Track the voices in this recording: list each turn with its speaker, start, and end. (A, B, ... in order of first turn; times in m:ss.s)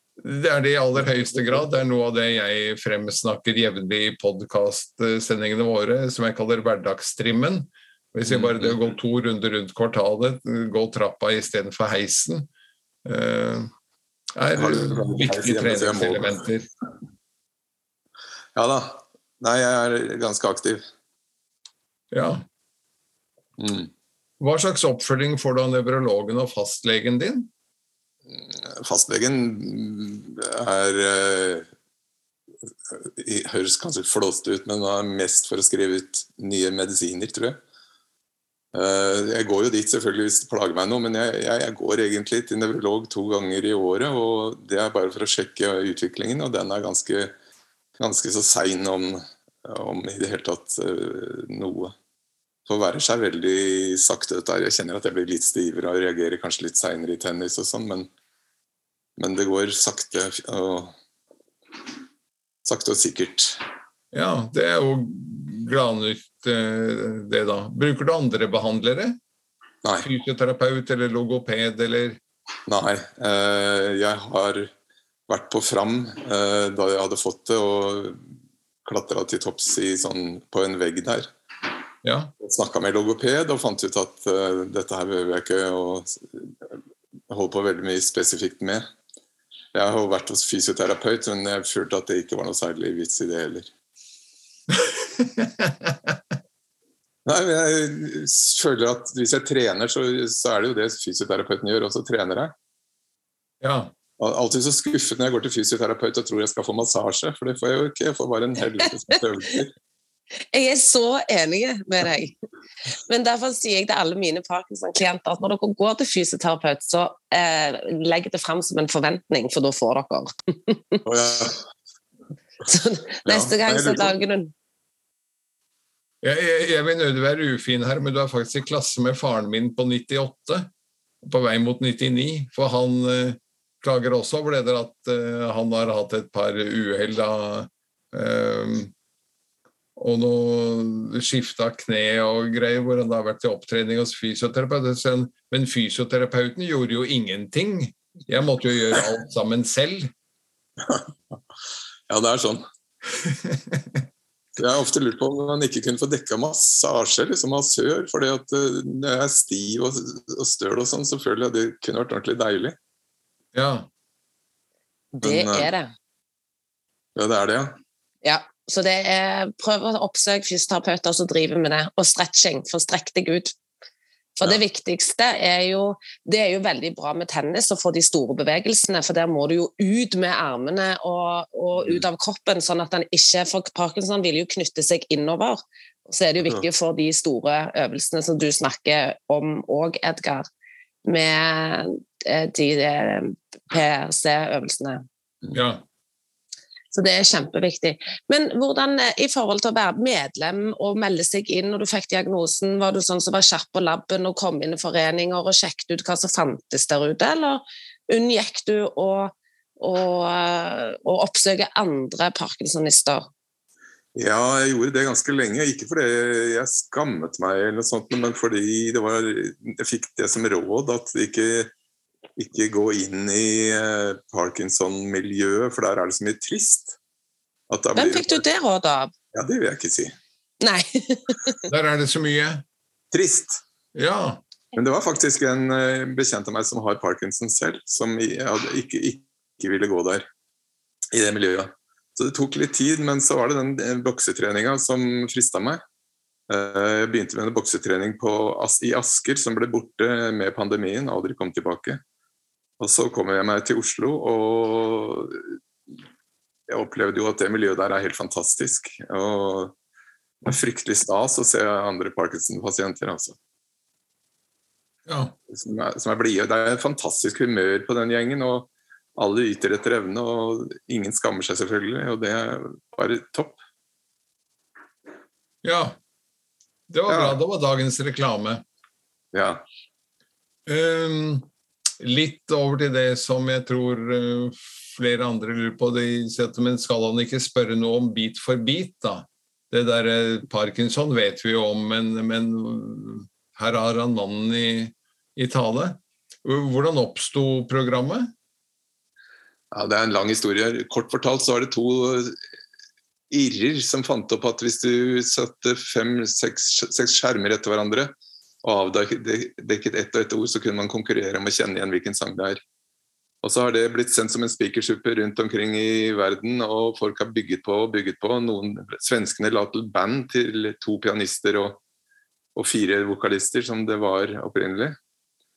0:00.2-0:12.5 A
0:08.3-0:08.8 B
0:13.0-0:13.7 A
0:14.4-0:16.7 A
0:14.6-0:16.4 B
0:18.6-0:20.8 B
0:22.1-0:22.4 A
0:23.6-0:23.9 B
0:24.4-0:27.5 A
0:28.3-0:31.7 B
0:32.9-0:37.6 B
0:38.7-0:47.4 B
0:48.0-0:51.9 B
0:52.7-0:58.1 B
0:59.2-1:01.0 B
1:02.6-1:03.6 B
1:04.1-1:09.2 A
1:10.0-1:12.2 A
1:12.7-1:14.7 B
1:15.3-1:18.2 B
1:18.8-1:21.3 B
1:22.0-1:22.3 A
1:22.4-1:26.8 B
1:27.3-1:28.8 B
1:29.7-1:33.7 B
1:34.7-1:36.2 A
1:37.3-1:42.5 B
1:43.6-1:43.9 A
1:44.2-1:49.7 B
1:50.5-1:52.4 C
1:53.1-2:01.0 C
2:01.0-2:01.6 B
2:02.6-2:04.5 C
2:03.3-2:04.1 B
2:06.2-2:10.7 A
2:11.2-2:18.9 A
2:20.0-2:30.1 A
2:30.8-2:31.4 B
2:32.1-2:32.6 B
2:33.1-2:34.0 A
2:34.6-2:42.8 B
2:43.5-2:43.9 A
2:45.1-2:45.9 C
2:45.2-2:45.7 B
2:47.2-2:47.8 B
2:48.2-2:53.5 C
2:54.4-3:10.4 C
3:11.0-3:15.0 C
3:15.5-3:15.8 A
3:16.9-3:33.3 C
3:34.2-3:41.7 B
3:42.4-3:47.0 B
3:47.7-3:48.4 B
3:48.0-3:49.1 C
3:49.3-3:50.1 B
3:50.6-3:51.6 C
3:51.7-3:52.6 A
3:53.1-3:53.6 B
3:54.0-3:54.4 A
3:54.8-4:00.2 B
4:01.1-4:05.8 B
4:06.5-4:12.0 B
4:12.8-4:15.5 B
4:16.7-4:19.7 B
4:20.4-4:23.4 B
4:25.1-4:25.3 A
4:25.5-4:33.6 B
4:35.6-4:36.0 A
4:36.9-4:38.6 A
4:37.1-4:37.4 B
4:39.3-4:39.6 B
4:40.7-4:41.5 A
4:42.0-4:58.3 A
4:59.7-5:02.4 B
5:03.3-5:08.1 B
5:08.6-5:12.6 B
5:13.4-5:21.8 B
5:22.6-5:25.0 B